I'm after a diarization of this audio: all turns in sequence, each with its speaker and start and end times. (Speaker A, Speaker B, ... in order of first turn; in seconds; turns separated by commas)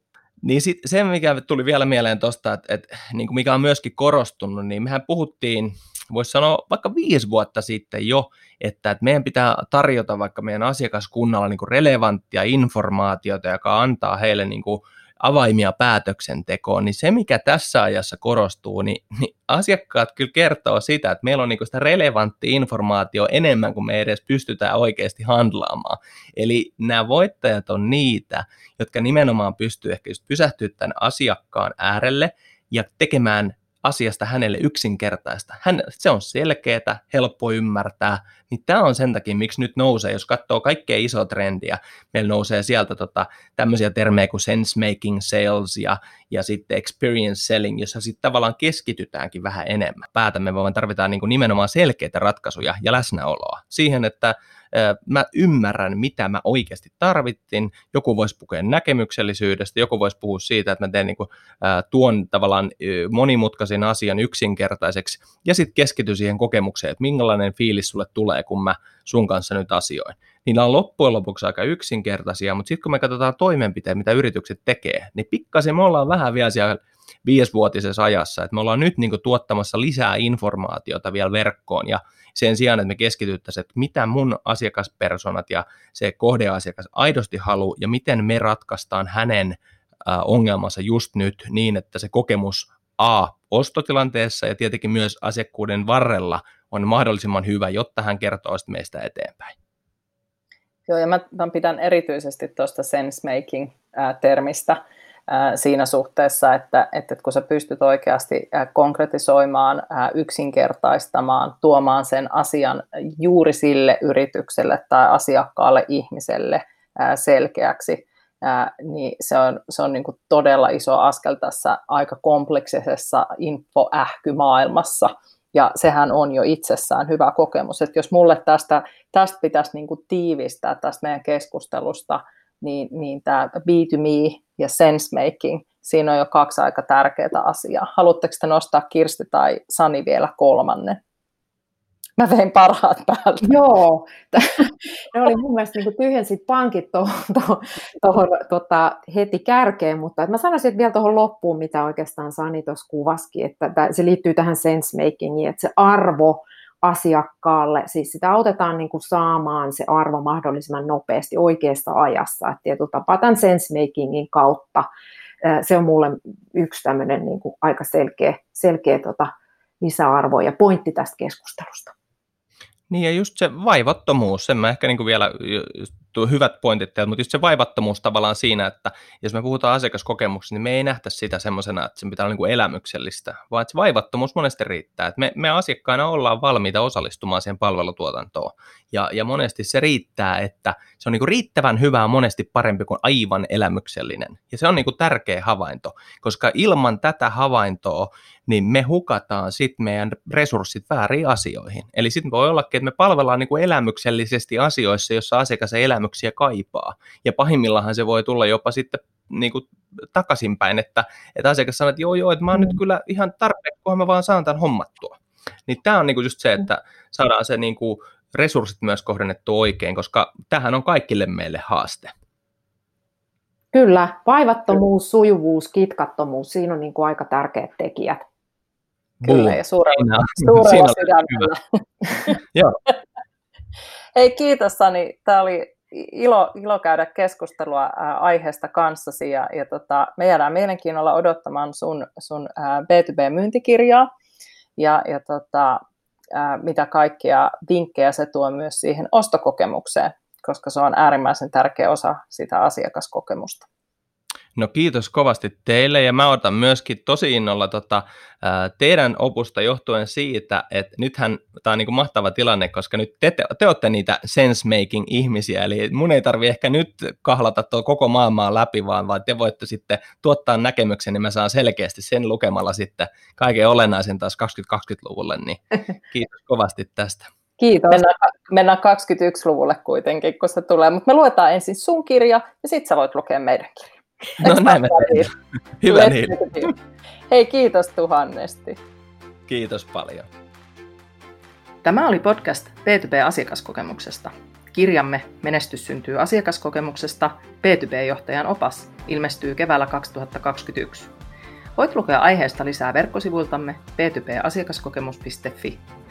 Speaker A: 0.4-99.5, Speaker B: 100.9-141.0, Speaker B: 142.2-143.6, Speaker C: 143.4-164.9, Speaker C: 165.4-171.9, Speaker A: 172.9-222.1, Speaker C: 223.7-228.2, Speaker A: 229.2-231.5, Speaker B: 229.2-232.4, Speaker A: 232.5-232.8, Speaker B: 234.1-244.1, Speaker B: 244.8-245.8, Speaker B: 246.3-253.7, Speaker A: 254.6-277.3, Speaker B: 277.6-285.3, Speaker A: 284.4-285.3, Speaker A: 285.8-286.4, Speaker B: 285.9-286.7, Speaker B: 287.3-288.8, Speaker A: 289.5-290.3, Speaker B: 291.8-301.1, Speaker B: 301.8-305.8